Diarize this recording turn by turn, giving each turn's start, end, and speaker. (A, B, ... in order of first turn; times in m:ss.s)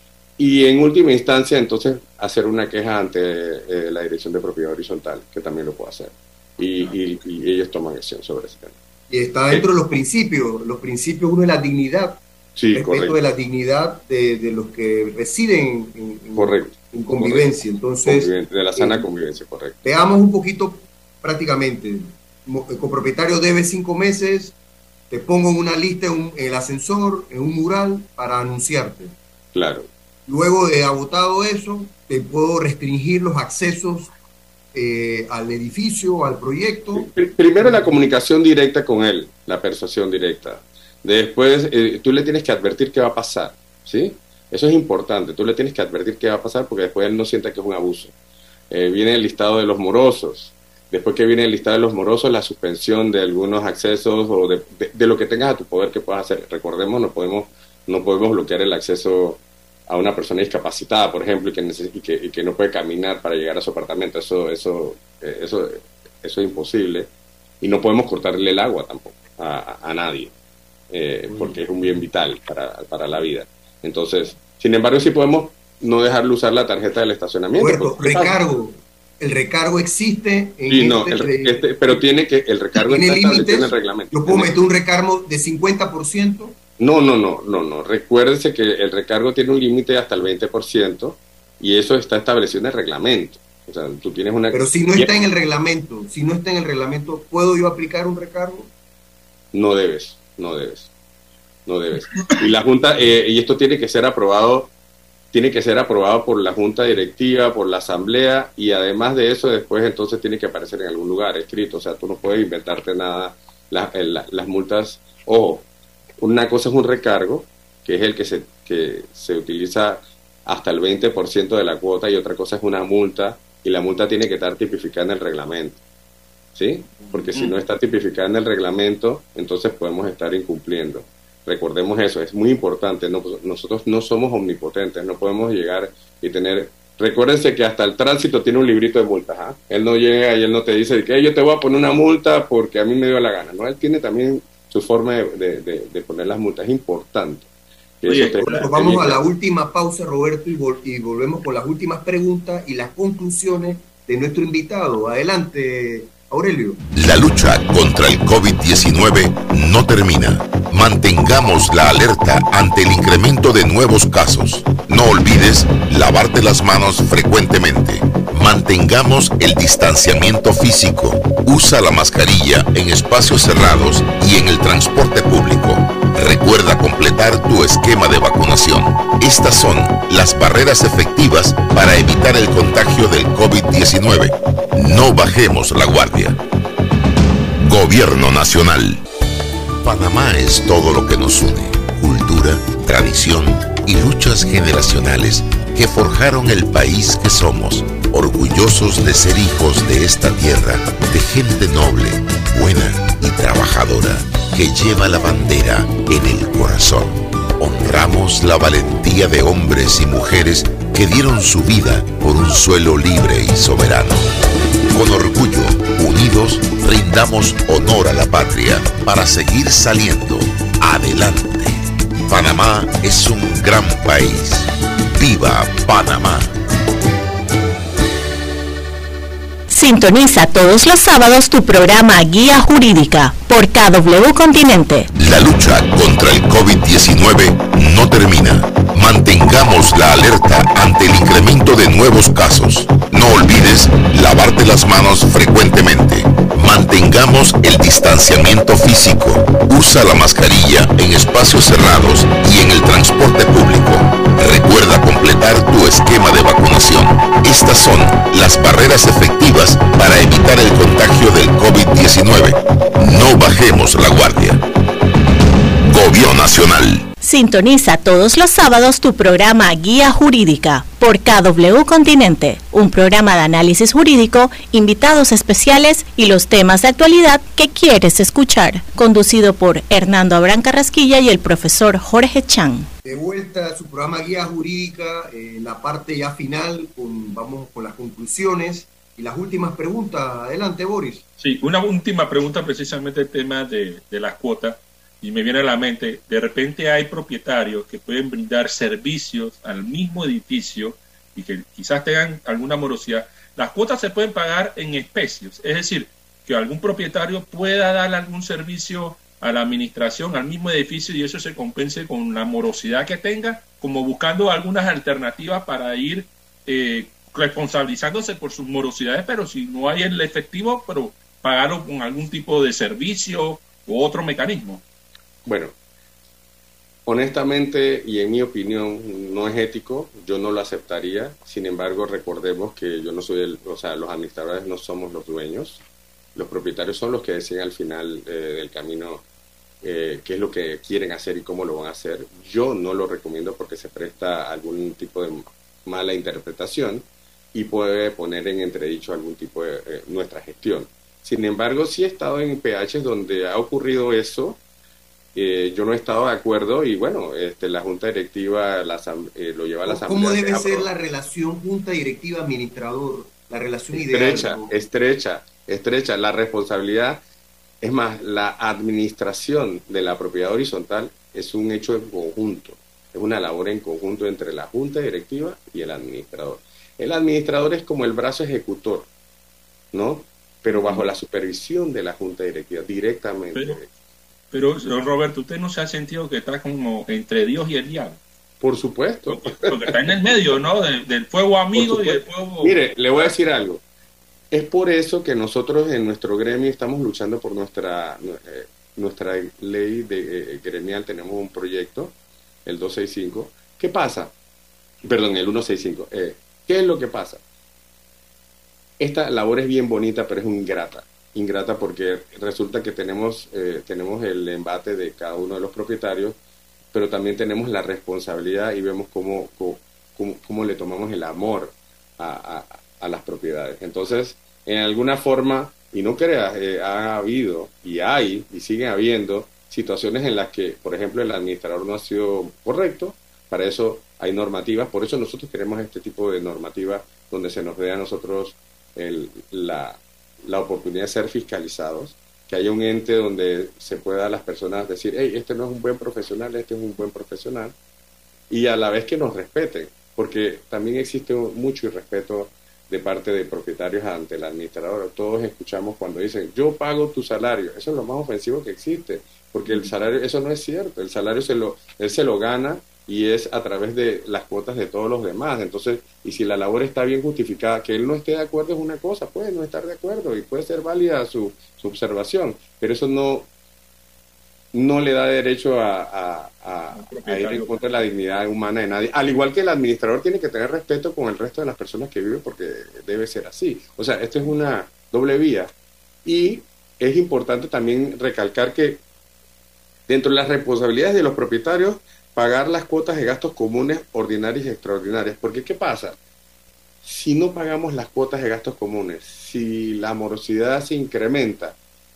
0:00.4-0:08.7 A
0:09.1-0:12.2 B
0:12.5-0:13.2 A
0:12.7-0:19.0 B
0:16.3-0:17.5 A
0:18.0-0:19.8 A
0:19.8-0:24.5 B
0:25.1-0:29.1 B
0:29.5-0:29.9 A
0:30.3-0:34.1 B
0:34.7-0:38.0 B
0:36.9-0:48.1 A
0:48.7-1:07.1 A
1:07.6-1:10.3 A
1:10.9-1:18.4 A
1:11.3-1:12.0 B
1:17.5-1:22.0 B
1:20.7-1:24.5 A
1:22.7-1:26.6 B
1:26.8-1:35.1 A
1:34.5-1:38.7 B
1:39.5-1:40.9 A
1:41.6-1:44.7 A
1:45.3-1:55.7 A
1:56.2-2:05.8 A
2:06.6-2:27.5 A
2:28.0-2:29.2 A
2:28.0-2:28.7 C
2:28.3-2:36.8 B
2:36.9-3:06.4 D
3:07.6-3:09.0 D
3:09.8-3:34.2 D
3:34.9-3:46.5 D
3:49.7-3:55.1 E
3:55.1-4:24.6 D
4:25.8-4:27.0 D
4:27.2-4:42.9 E
4:43.0-4:51.2 B
4:51.4-5:24.8 C
5:25.4-5:25.7 A
5:27.0-5:35.8 A
5:36.3-5:39.2 A
5:39.8-5:54.6 A
5:55.3-6:00.9 A
5:59.8-6:04.7 B
6:03.9-6:07.2 A
6:07.8-6:19.1 A
6:19.9-6:23.9 A
6:20.7-6:21.1 C
6:23.5-6:23.8 C
6:24.5-6:28.2 C
6:28.6-6:30.4 A
6:29.3-6:33.3 C
6:31.7-6:33.8 A
6:34.5-6:44.3 A
6:45.0-6:47.4 A
6:49.0-6:56.4 A
6:56.9-7:27.7 A
7:28.5-7:53.5 A
7:54.7-8:05.7 A
7:56.9-7:57.8 C
8:06.2-8:09.0 A
8:10.1-8:16.2 A
8:17.0-8:21.8 A